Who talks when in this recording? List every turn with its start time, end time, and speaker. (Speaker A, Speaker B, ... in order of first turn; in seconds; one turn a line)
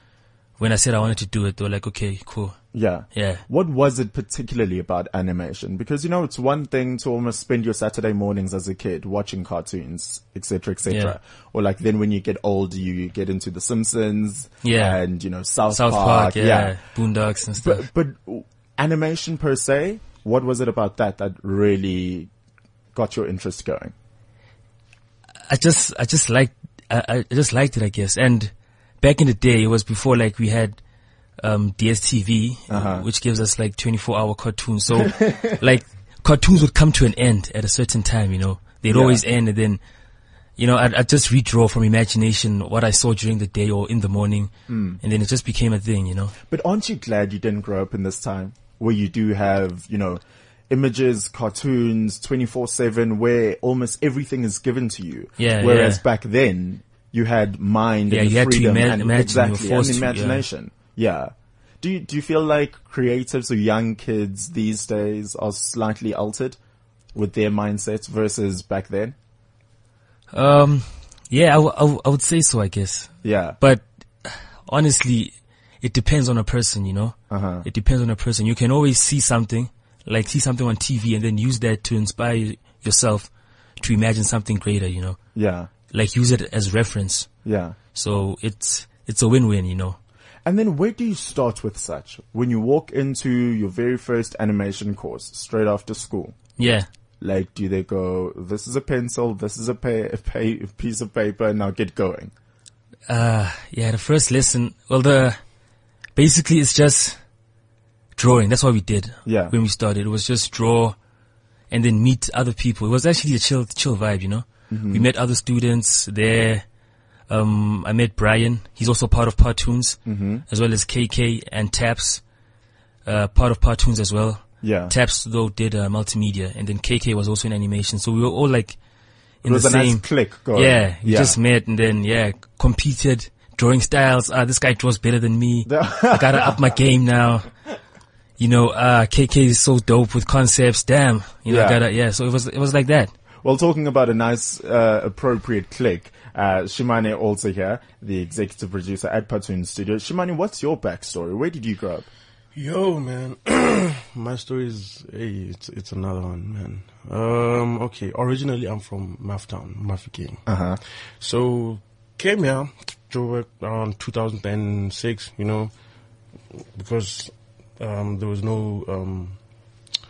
Speaker A: 0.6-2.6
Speaker B: 2.7-16.8
Speaker A: 3.1-3.4
Speaker A: 10.9-11.2
Speaker A: 14.6-15.0
Speaker A: 15.7-17.8
Speaker B: 17.6-22.3
Speaker B: 22.9-23.9
Speaker A: 25.5-30.8
Speaker A: 31.4-39.8
Speaker B: 32.7-33.0
Speaker B: 35.0-35.5
Speaker B: 38.9-39.2
Speaker A: 40.6-44.5
Speaker B: 44.7-45.0
Speaker A: 45.0-46.3
Speaker B: 46.5-66.6
Speaker A: 55.4-56.0
Speaker A: 58.1-60.4
Speaker B: 67.1-69.1
Speaker A: 70.3-85.2
Speaker B: 73.2-73.6
Speaker B: 77.3-77.7
Speaker B: 85.3-85.7
Speaker A: 85.9-87.3
Speaker B: 87.4-87.8
Speaker A: 87.9-90.0
Speaker B: 90.4-96.3
Speaker A: 96.6-96.9
Speaker B: 97.2-102.3
Speaker A: 103.1-105.4
Speaker A: 106.2-107.2
Speaker A: 108.2-111.0
Speaker B: 109.2-109.5
Speaker A: 111.7-116.6
Speaker B: 114.7-115.0
Speaker A: 117.3-122.2
Speaker B: 120.0-120.4
Speaker A: 123.0-128.8
Speaker B: 124.6-124.9
Speaker A: 129.4-137.5
Speaker B: 129.4-131.4
Speaker B: 135.7-136.5
Speaker A: 138.4-143.1
Speaker B: 141.5-141.8
Speaker B: 143.4-152.1
Speaker C: 152.5-160.4
Speaker B: 160.5-160.8
Speaker C: 161.2-165.7
Speaker C: 166.7-169.4